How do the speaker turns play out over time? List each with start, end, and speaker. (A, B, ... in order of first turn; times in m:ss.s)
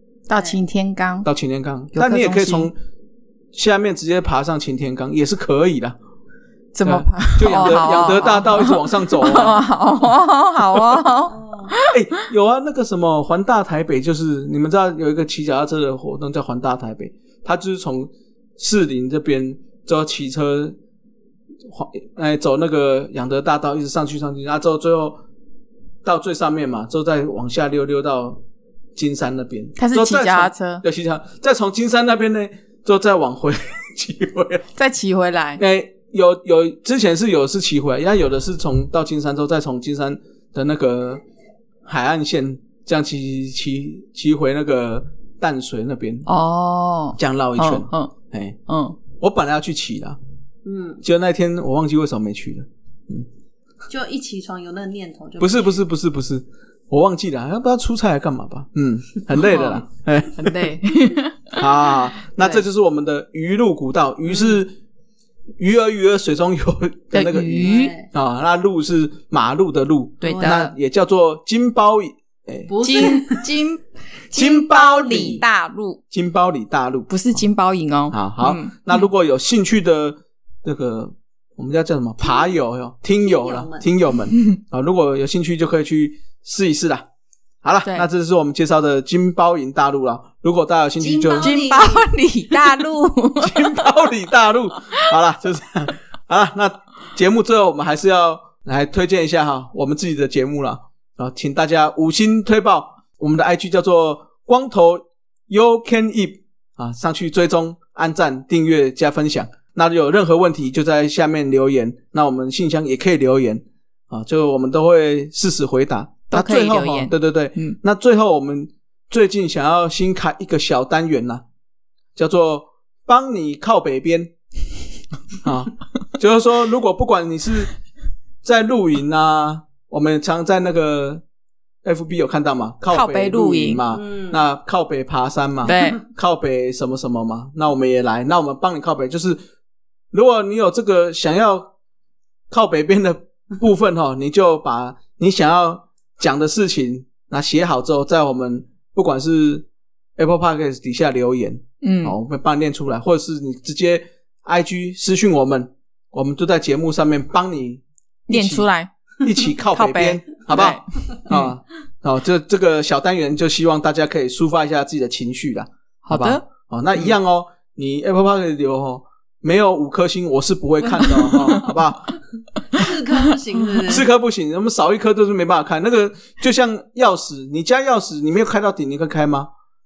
0:00.3-0:01.3 A
0:01.2-0:02.8 B
0:01.9-0:02.7 A
0:03.5-0:06.0 B
0:06.7-0:12.2 A
0:06.8-0:09.6 B
0:11.3-0:11.8 C
0:11.9-0:20.8 B
0:21.6-0:25.2 B
0:26.0-0:28.4 B
0:29.0-0:34.7 B
0:29.8-0:30.8 A
0:34.8-0:35.6 A
0:35.6-0:41.2 B
0:41.8-0:46.3 B
0:46.3-0:48.1 A
0:47.2-0:48.6 B
0:48.7-0:49.0 A
0:49.1-0:50.2 B
0:50.6-0:51.0 C
0:51.0-0:53.3 B
0:53.9-0:55.8 C
0:55.4-1:00.7 B
0:59.5-0:59.8 C
1:00.4-1:02.6 A
1:01.6-1:04.8 B
1:04.3-1:04.6 C
1:05.6-1:13.1 B
1:07.1-1:07.9 A
1:07.6-1:08.1 C
1:10.2-1:10.8 A
1:10.2-1:10.6 C
1:12.7-1:13.5 C
1:12.8-1:16.0 A
1:14.3-1:15.4 B
1:16.1-1:17.1 B
1:17.1-1:19.0 A
1:18.1-1:27.1 B
1:22.2-1:22.6 C
1:23.2-1:23.9 C
1:27.6-1:31.5 B
1:31.0-1:32.1 C
1:31.4-1:33.9 A
1:33.4-2:01.4 B
1:56.3-1:57.8 A
2:02.2-2:04.3 B
2:05.4-2:07.7 B
2:08.4-2:11.2 B
2:11.8-2:19.4 B
2:12.9-2:13.8 A
2:13.9-2:14.4 C
2:15.6-2:16.0 A
2:20.1-2:21.7 B
2:22.5-2:29.7 B
2:30.2-2:38.7 B
2:31.8-2:32.2 A
2:38.3-2:38.9 A
2:39.2-2:52.2 B
2:39.7-2:41.5 A
2:46.0-2:46.4 A
2:51.1-2:51.4 C
2:51.3-2:51.6 A
2:52.7-2:54.1 C
2:53.8-2:59.5 B